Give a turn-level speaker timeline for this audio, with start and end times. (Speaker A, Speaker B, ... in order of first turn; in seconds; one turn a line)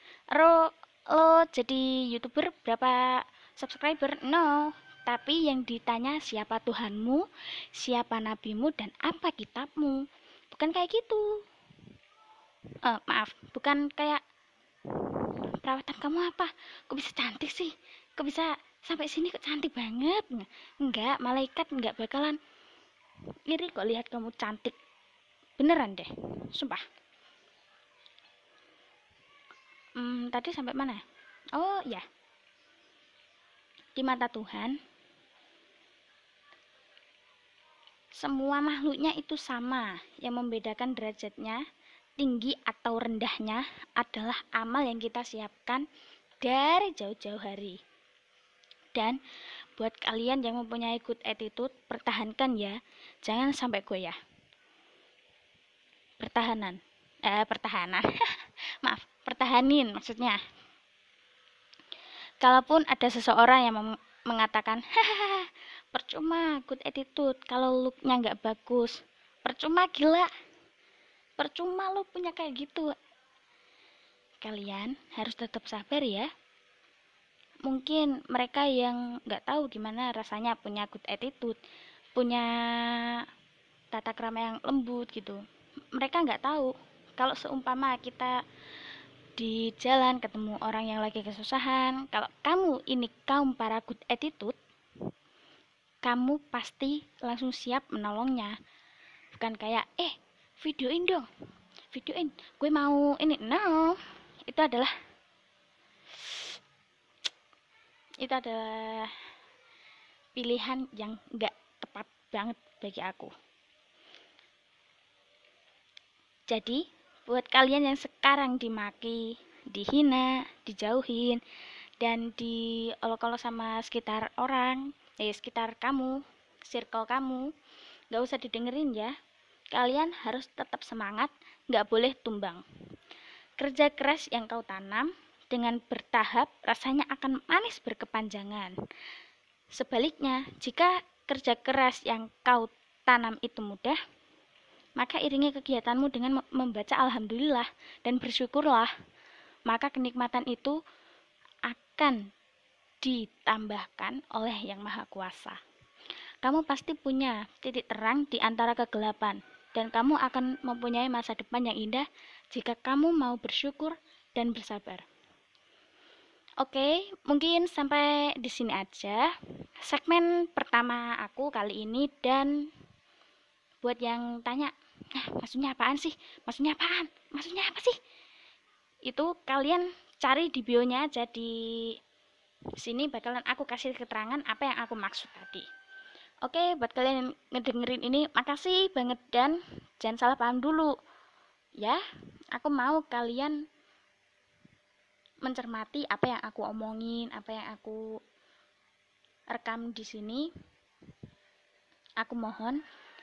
Speaker A: 0.3-10.0
Speaker A: 10.5-11.3
Speaker A: 12.8-14.2
Speaker A: 15.6-22.4
Speaker A: 23.5-24.8
Speaker A: 25.6-26.8
Speaker A: 30.0-31.0
Speaker A: 31.6-32.0
Speaker A: 34.0-34.8
Speaker A: 38.2-41.6
Speaker A: 42.2-45.9
Speaker A: 46.4-47.8
Speaker A: 49.8-54.2
Speaker A: 56.2-58.1
Speaker A: 58.8-60.4
Speaker A: 62.4-70.3
Speaker A: 71.4-72.9
Speaker A: 74.4-76.3
Speaker A: 77.7-81.6
Speaker A: 82.2-83.2
Speaker A: 83.9-85.4
Speaker A: 86.0-88.3
Speaker A: 89.4-94.6
Speaker A: 96.0-98.6
Speaker A: 99.3-101.3
Speaker A: 101.9-104.9
Speaker A: 108.2-109.1
Speaker A: 110.3-113.3
Speaker A: 116.5-121.4
Speaker A: 122.0-127.5
Speaker A: 128.1-129.1
Speaker A: 129.7-132.6
Speaker A: 133.6-138.7
Speaker A: 139.7-144.0
Speaker A: 145.0-148.9
Speaker A: 149.7-150.8
Speaker A: 151.7-152.2
Speaker A: 153.0-155.6
Speaker A: 156.4-165.1
Speaker A: 166.6-169.3
Speaker A: 169.8-172.7
Speaker A: 173.8-178.0
Speaker A: 179.1-182.0
Speaker A: 182.8-185.7
Speaker A: 186.4-190.9
Speaker A: 192.5-193.6
Speaker A: 195.4-198.0
Speaker A: 199.5-200.5
Speaker A: 202.2-202.8